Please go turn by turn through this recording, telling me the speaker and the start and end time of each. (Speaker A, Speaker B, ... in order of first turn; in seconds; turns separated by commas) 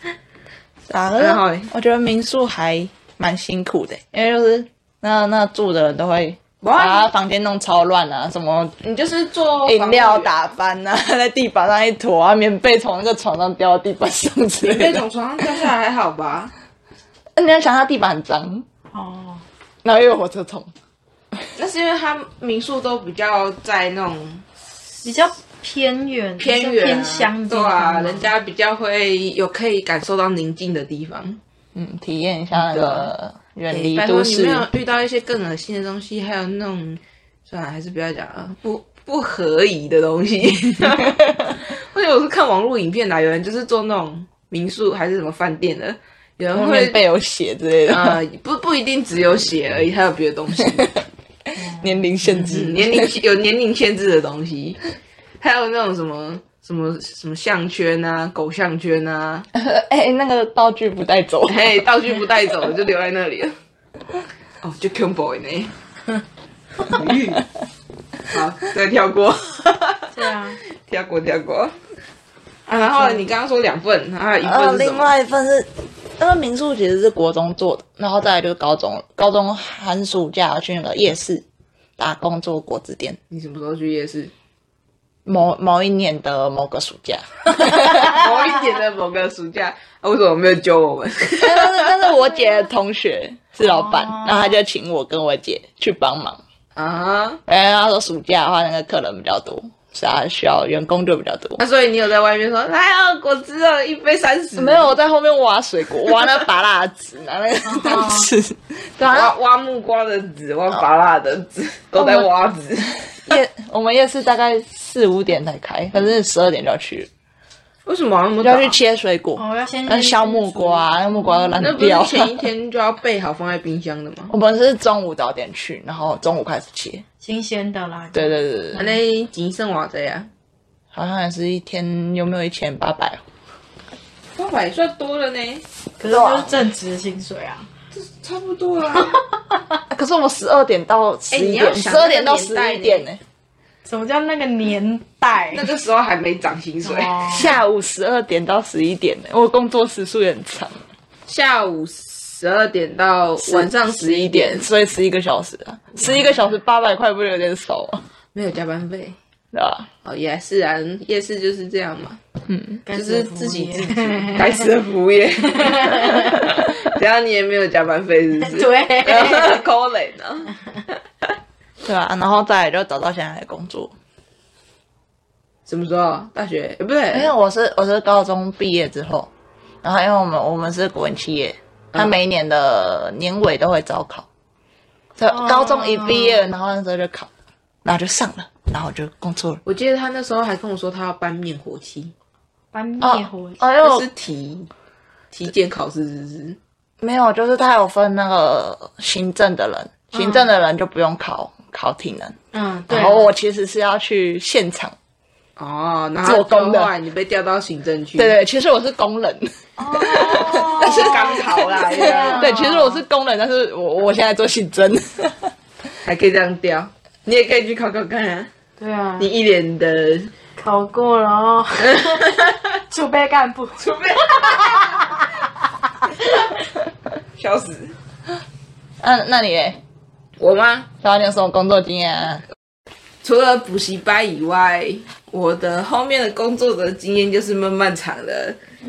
Speaker A: 0.9-8.8, Speaker B: 1.2-1.7, Speaker B: 6.6-7.1, Speaker B: 8.8-10.3, Speaker A: 9.7-15.7, Speaker B: 14.6-16.5, Speaker A: 17.4-18.7, Speaker C: 18.9-19.4, Speaker A: 19.8-20.7, Speaker B: 21.6-24.4, Speaker C: 25.0-28.3, Speaker B: 26.4-31.4, Speaker A: 31.8-34.7, Speaker B: 32.5-33.1, Speaker B: 33.7-47.0, Speaker A: 40.8-41.5, Speaker A: 46.5-48.2, Speaker B: 47.9-51.0, Speaker C: 51.6-52.0, Speaker A: 51.8-53.2, Speaker B: 52.4-54.8, Speaker B: 55.4-59.5, Speaker A: 59.5-61.9, Speaker B: 61.5-63.5, Speaker B: 64.6-65.7, Speaker B: 66.8-67.5, Speaker B: 68.3-70.1, Speaker C: 70.1-70.6, Speaker B: 70.8-71.7, Speaker B: 72.7-75.1, Speaker C: 72.9-73.2, Speaker A: 74.4-81.5, Speaker A: 82.0-83.2, Speaker B: 83.3-84.3, Speaker A: 85.3-88.2, Speaker B: 87.8-92.1, Speaker A: 91.4-96.4, Speaker C: 93.6-94.5, Speaker B: 96.8-97.4, Speaker A: 97.5-101.6, Speaker B: 101.6-105.0, Speaker A: 104.6-109.3, Speaker C: 107.7-108.3, Speaker B: 109.1-113.4, Speaker A: 112.0-112.3, Speaker A: 113.3-117.1, Speaker B: 117.9-118.8, Speaker A: 118.4-122.5, Speaker C: 119.4-121.7, Speaker B: 121.6-124.3, Speaker A: 124.3-127.0, Speaker C: 127.2-129.0, Speaker A: 128.1-128.9, Speaker B: 128.8-130.3, Speaker A: 130.9-133.2, Speaker B: 134.4-135.6, Speaker C: 136.0-137.7, Speaker A: 136.1-136.5, Speaker B: 137.9-139.2, Speaker C: 138.9-139.8, Speaker A: 139.9-143.2, Speaker B: 141.3-143.1, Speaker C: 143.8-145.7, Speaker B: 145.5-147.5, Speaker C: 146.8-147.6, Speaker A: 147.3-150.8, Speaker B: 151.3-154.7, Speaker A: 153.4-158.0, Speaker B: 158.3-159.2, Speaker A: 159.5-159.9, Speaker B: 160.0-162.2, Speaker A: 162.5-162.8, Speaker C: 162.9-164.7, Speaker B: 162.9-171.0, Speaker C: 165.4-166.5, Speaker C: 168.4-169.6, Speaker A: 171.8-173.9, Speaker B: 175.7-177.3, Speaker A: 177.1-179.3, Speaker A: 179.8-184.3, Speaker A: 185.2-187.3, Speaker C: 185.3-186.4, Speaker A: 187.8-189.6, Speaker B: 189.7-192.1, Speaker C: 192.7-193.6, Speaker A: 193.0-194.1, Speaker B: 193.8-194.7, Speaker B: 195.3-196.6, Speaker A: 197.0-202.4, Speaker C: 200.1-200.5, Speaker C: 202.5-203.3, Speaker A: 202.9-204.9, Speaker B: 205.6-208.4, Speaker A: 206.2-206.9, Speaker A: 208.2-215.5, Speaker C: 209.8-213.0, Speaker B: 210.6-212.6, Speaker B: 216.0-218.5, Speaker C: 218.8-219.3, Speaker B: 219.2-220.3, Speaker C: 220.6-225.5, Speaker B: 221.8-222.6, Speaker B: 223.8-225.2, Speaker C: 226.0-226.6, Speaker B: 227.4-228.0, Speaker A: 229.0-229.8, Speaker B: 230.4-230.9, Speaker A: 231.0-232.4, Speaker B: 233.2-238.6